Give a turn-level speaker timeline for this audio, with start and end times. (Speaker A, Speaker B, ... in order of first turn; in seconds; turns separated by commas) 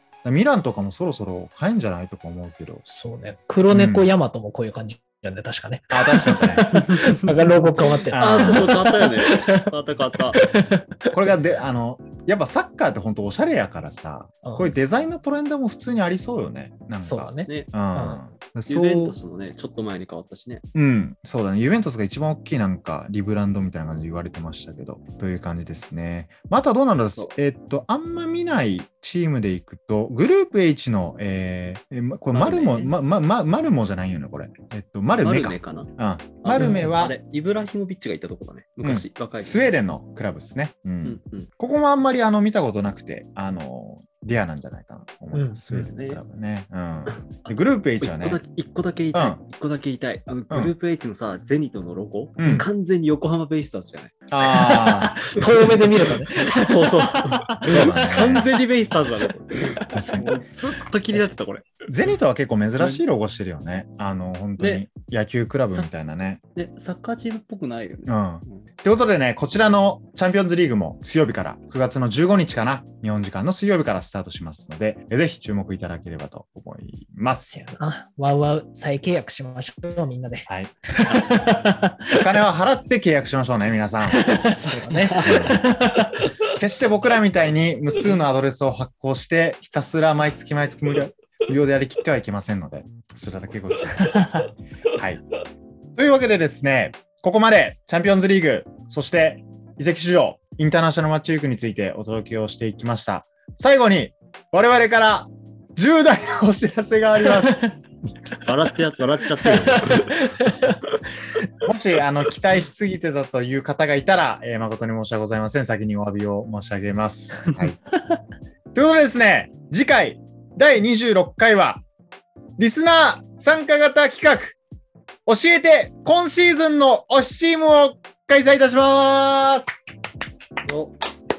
Speaker A: 0.2-2.8, Speaker B: 2.9-9.7, Speaker A: 3.7-4.1, Speaker A: 5.9-6.7, Speaker C: 6.9-7.2, Speaker A: 8.1-8.7, Speaker C: 8.2-10.4, Speaker B: 10.3-11.1, Speaker A: 11.1-19.2, Speaker B: 14.4-14.7, Speaker B: 17.0-18.2, Speaker C: 18.7-20.6, Speaker A: 20.7-37.2, Speaker C: 32.3-32.9, Speaker C: 35.1-35.9, Speaker C: 36.4-39.7, Speaker B: 36.6-36.9, Speaker A: 38.8-48.4, Speaker C: 41.0-41.5, Speaker B: 45.3-45.6, Speaker C: 45.7-46.2, Speaker C: 48.0-54.2, Speaker A: 49.1-49.4, Speaker A: 52.4-52.7, Speaker A: 54.3-55.2, Speaker B: 54.5-57.7, Speaker C: 56.3-61.9, Speaker A: 57.7-58.5, Speaker A: 59.9-60.3, Speaker A: 61.9-66.4, Speaker C: 64.6-64.9, Speaker C: 66.5-68.7, Speaker A: 68.1-77.5, Speaker B: 77.5-82.3, Speaker A: 80.5-80.8, Speaker C: 81.1-81.7, Speaker A: 82.1-85.7, Speaker B: 84.1-86.3, Speaker C: 84.9-85.5, Speaker A: 86.6-95.2, Speaker B: 94.0-94.5, Speaker A: 96.0-107.8, Speaker C: 108.4-110.5, Speaker B: 109.4-110.8, Speaker A: 111.6-117.8, Speaker A: 118.7-121.8, Speaker A: 122.6-124.6, Speaker A: 125.3-129.7, Speaker C: 130.7-130.9